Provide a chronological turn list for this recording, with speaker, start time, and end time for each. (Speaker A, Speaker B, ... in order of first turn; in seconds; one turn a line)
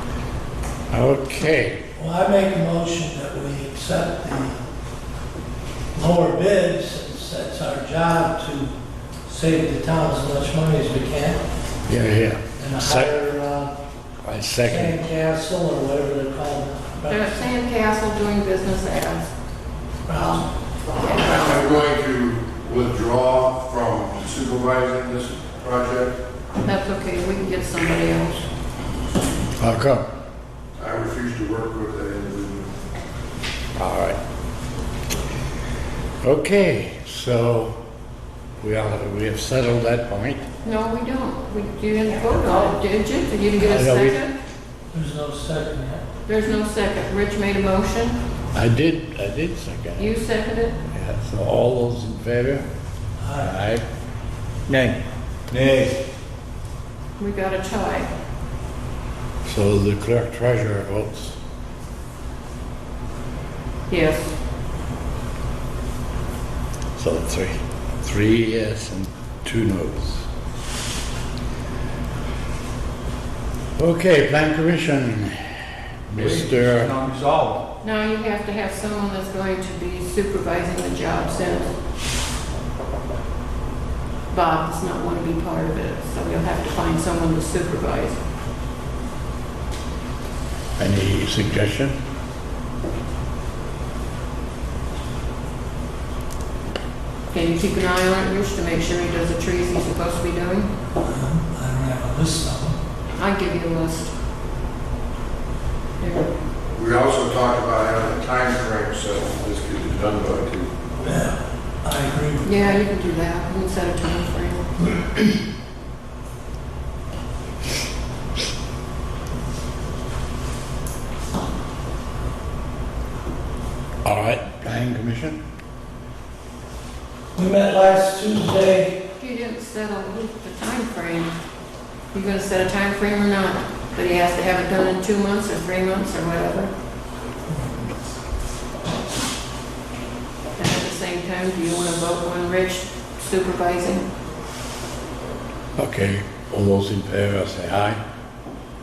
Speaker A: 0.9-1.8
Speaker B: 2.0-4.6
Speaker B: 5.9-8.7
Speaker B: 9.3-11.4
Speaker A: 11.9-13.1
Speaker B: 12.6-13.7
Speaker A: 14.2-15.0
Speaker B: 14.6-17.3
Speaker C: 17.1-19.3
Speaker B: 20.1-20.5
Speaker C: 20.1-21.8
Speaker D: 21.2-26.1
Speaker C: 26.6-28.4
Speaker A: 29.6-30.0
Speaker D: 30.8-32.7
Speaker A: 33.8-34.2
Speaker A: 36.2-37.8
Speaker A: 38.6-40.4
Speaker C: 40.6-44.3
Speaker A: 43.6-44.2
Speaker B: 44.9-46.0
Speaker C: 46.3-48.2
Speaker A: 48.5-50.1
Speaker C: 50.0-50.8
Speaker A: 50.9-52.6
Speaker B: 53.2-53.5
Speaker A: 53.4-53.8
Speaker E: 55.5-55.9
Speaker C: 57.2-58.1
Speaker A: 59.4-61.3
Speaker C: 63.9-64.3
Speaker A: 67.0-70.2
Speaker A: 73.8-76.9
Speaker E: 76.2-77.6
Speaker C: 77.8-81.7
Speaker C: 84.3-88.2
Speaker A: 90.8-92.0
Speaker C: 97.3-100.7
Speaker B: 101.0-102.8
Speaker C: 103.2-104.1
Speaker C: 106.0-106.3
Speaker D: 106.7-110.7
Speaker B: 111.0-112.7
Speaker C: 112.4-114.6
Speaker A: 124.0-125.4
Speaker B: 127.4-129.0
Speaker C: 129.2-131.3
Speaker C: 132.1-136.7
Speaker B: 137.5-137.8
Speaker C: 140.6-144.0
Speaker A: 145.8-148.0